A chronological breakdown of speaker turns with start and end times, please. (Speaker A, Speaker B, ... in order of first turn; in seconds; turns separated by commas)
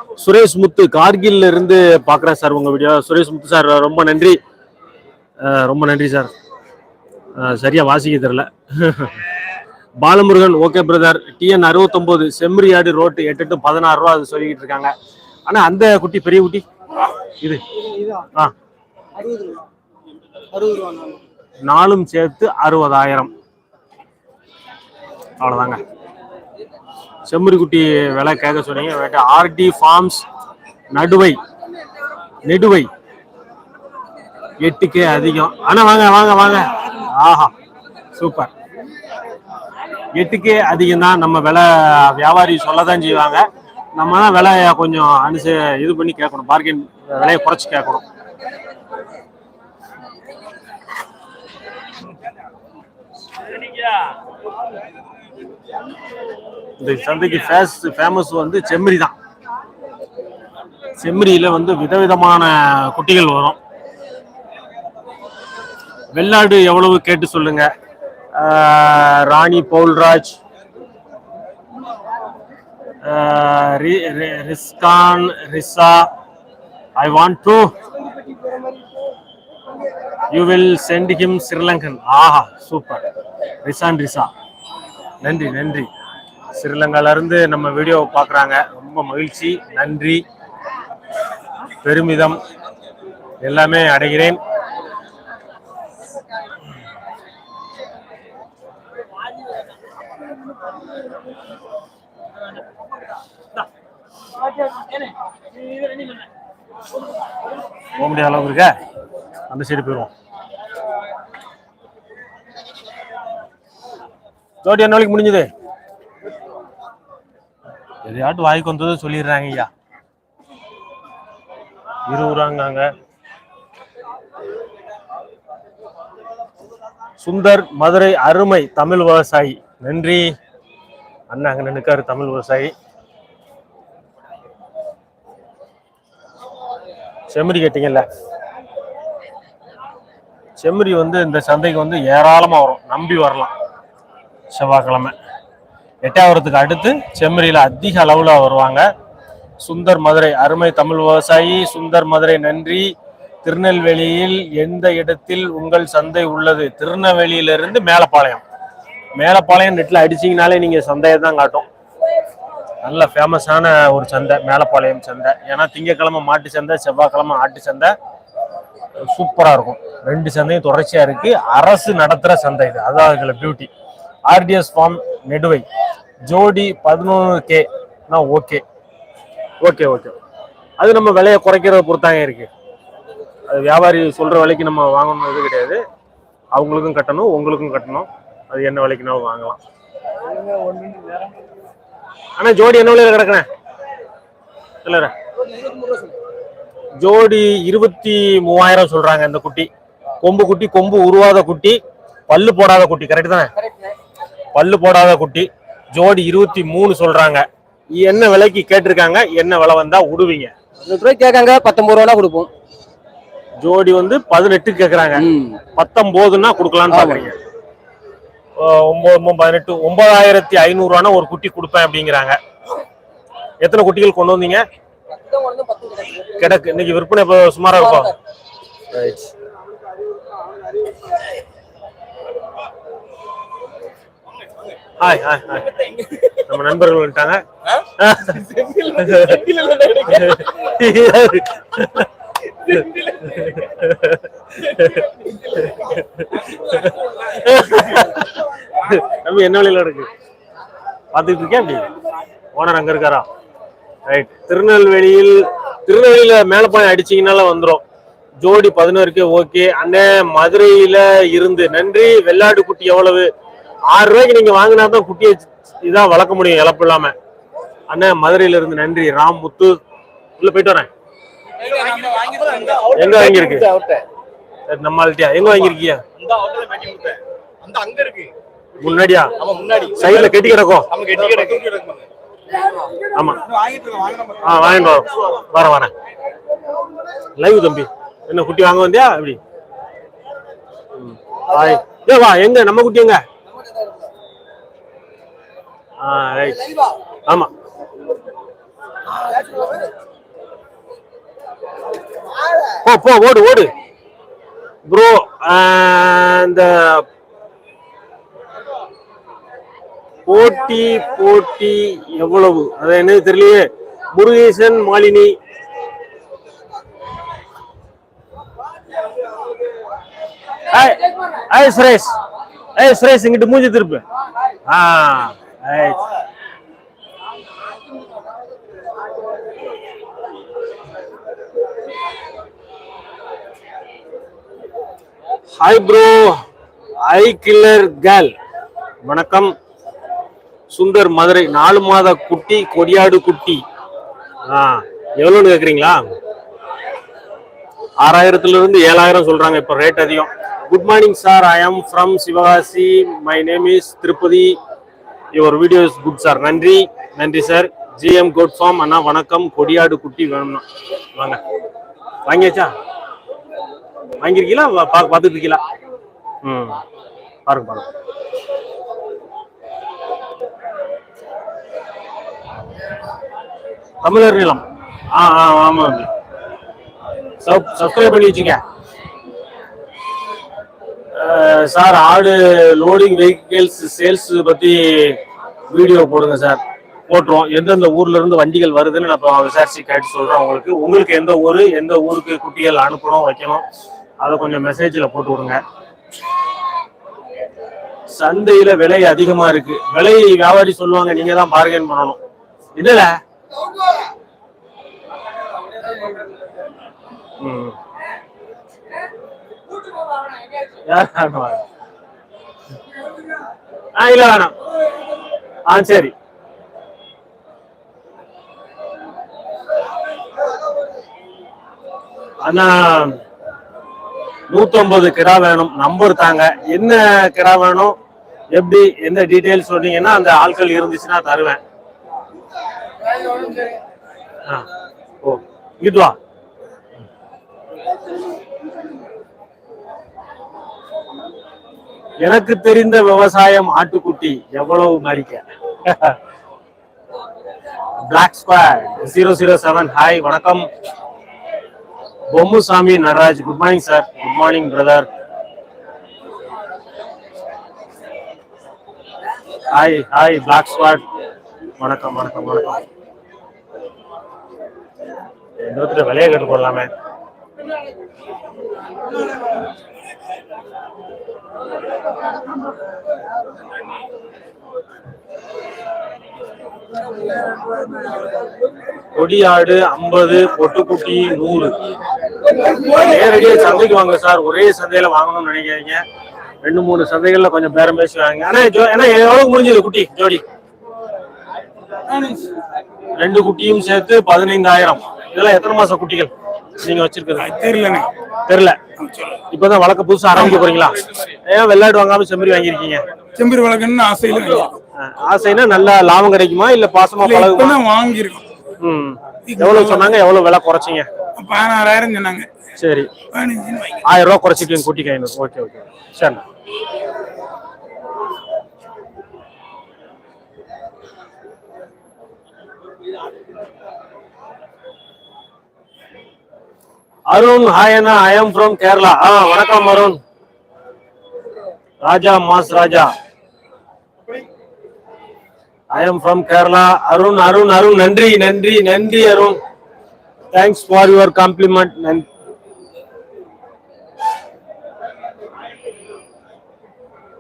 Speaker A: 0.2-4.4, Speaker A: 5.4-6.3, Speaker A: 7.4-9.1, Speaker A: 10.0-14.9, Speaker A: 15.5-16.6, Speaker A: 21.7-23.3, Speaker A: 25.4-25.8, Speaker A: 27.3-30.3, Speaker A: 30.9-31.4, Speaker A: 32.5-32.9, Speaker A: 34.6-37.5, Speaker A: 38.2-38.5, Speaker A: 40.1-48.0, Speaker A: 56.8-59.1, Speaker A: 61.0-63.6, Speaker A: 66.1-67.7, Speaker A: 68.3-70.4, Speaker A: 73.0-76.1, Speaker A: 77.0-77.7, Speaker A: 80.3-83.0, Speaker A: 83.7-84.3, Speaker A: 85.2-85.9, Speaker A: 86.5-90.2, Speaker A: 91.8-92.4, Speaker A: 93.4-94.4, Speaker A: 108.0-108.7, Speaker A: 109.5-110.1, Speaker A: 114.6-115.5, Speaker A: 118.0-119.7, Speaker A: 122.1-122.9, Speaker A: 127.2-130.3, Speaker A: 131.3-132.7, Speaker A: 137.3-138.1, Speaker A: 140.6-143.5, Speaker A: 144.5-145.2, Speaker A: 146.1-148.9, Speaker A: 149.6-152.9, Speaker A: 153.4-158.4, Speaker A: 159.2-161.7, Speaker A: 162.8-167.9, Speaker A: 169.1-173.7, Speaker A: 174.3-175.7, Speaker A: 176.3-178.6, Speaker A: 179.6-180.2, Speaker A: 180.8-182.5, Speaker A: 183.5-185.8, Speaker A: 186.5-189.6, Speaker A: 192.4-193.5, Speaker A: 194.8-195.1, Speaker A: 197.0-199.7, Speaker A: 200.2-203.5, Speaker A: 204.6-210.5, Speaker B: 210.8-212.5, Speaker A: 213.6-217.4, Speaker B: 215.2-215.6, Speaker B: 216.9-217.3, Speaker A: 218.6-222.4, Speaker A: 223.6-224.6, Speaker B: 225.3-226.1, Speaker A: 226.4-228.1, Speaker B: 227.8-228.1, Speaker A: 228.9-229.3, Speaker A: 235.0-239.5, Speaker C: 238.4-240.2, Speaker A: 240.1-242.1, Speaker A: 242.7-250.1, Speaker A: 251.1-251.9, Speaker A: 252.6-253.3, Speaker A: 254.1-257.8, Speaker A: 258.4-263.3, Speaker A: 263.9-267.1, Speaker A: 267.9-269.8, Speaker A: 270.4-270.9, Speaker C: 271.6-274.0, Speaker A: 272.9-273.7, Speaker A: 274.7-276.0, Speaker C: 276.2-278.3, Speaker A: 278.8-279.3, Speaker C: 279.4-280.4, Speaker A: 280.0-280.9, Speaker C: 280.9-282.1, Speaker A: 283.1-283.4, Speaker C: 283.5-284.4, Speaker A: 284.4-285.9, Speaker A: 287.4-289.4, Speaker A: 291.0-293.2, Speaker A: 296.0-296.7, Speaker A: 302.8-303.7, Speaker A: 304.9-307.1, Speaker A: 310.3-315.4, Speaker A: 320.7-322.2, Speaker A: 322.8-324.0, Speaker A: 324.7-326.0, Speaker A: 335.6-336.4, Speaker A: 337.1-338.3, Speaker A: 339.1-339.5, Speaker A: 340.7-343.6, Speaker A: 344.5-346.1, Speaker A: 348.0-354.6, Speaker A: 355.3-360.6, Speaker A: 362.3-362.7, Speaker A: 364.2-365.6, Speaker A: 366.4-366.8, Speaker A: 367.5-367.9, Speaker A: 374.0-376.1, Speaker A: 377.4-378.6, Speaker A: 381.1-385.2, Speaker A: 385.7-393.6, Speaker A: 394.2-395.6, Speaker A: 398.2-402.2, Speaker A: 402.8-403.2, Speaker A: 407.4-407.8, Speaker A: 410.9-411.6, Speaker A: 414.0-414.5, Speaker A: 415.7-416.1, Speaker A: 422.4-423.2, Speaker A: 424.5-428.0, Speaker A: 428.5-431.6, Speaker A: 435.2-436.2, Speaker A: 442.2-446.2, Speaker A: 448.1-450.7, Speaker A: 452.3-455.1, Speaker A: 459.7-461.0, Speaker A: 461.8-462.8, Speaker A: 465.6-466.9, Speaker A: 479.1-481.8, Speaker A: 482.8-486.0, Speaker A: 486.6-490.4, Speaker D: 492.1-492.5, Speaker A: 493.2-497.5, Speaker D: 497.4-498.1, Speaker A: 498.5-498.8, Speaker D: 499.0-499.4, Speaker A: 499.5-503.0, Speaker D: 503.4-504.8, Speaker A: 505.0-507.8, Speaker D: 507.2-508.5, Speaker A: 508.8-511.1, Speaker D: 509.5-510.2, Speaker D: 511.4-512.5, Speaker A: 512.8-513.1, Speaker D: 513.3-514.0, Speaker A: 514.0-516.4, Speaker A: 527.3-530.2, Speaker A: 532.0-533.1, Speaker A: 535.9-539.6, Speaker A: 540.5-542.3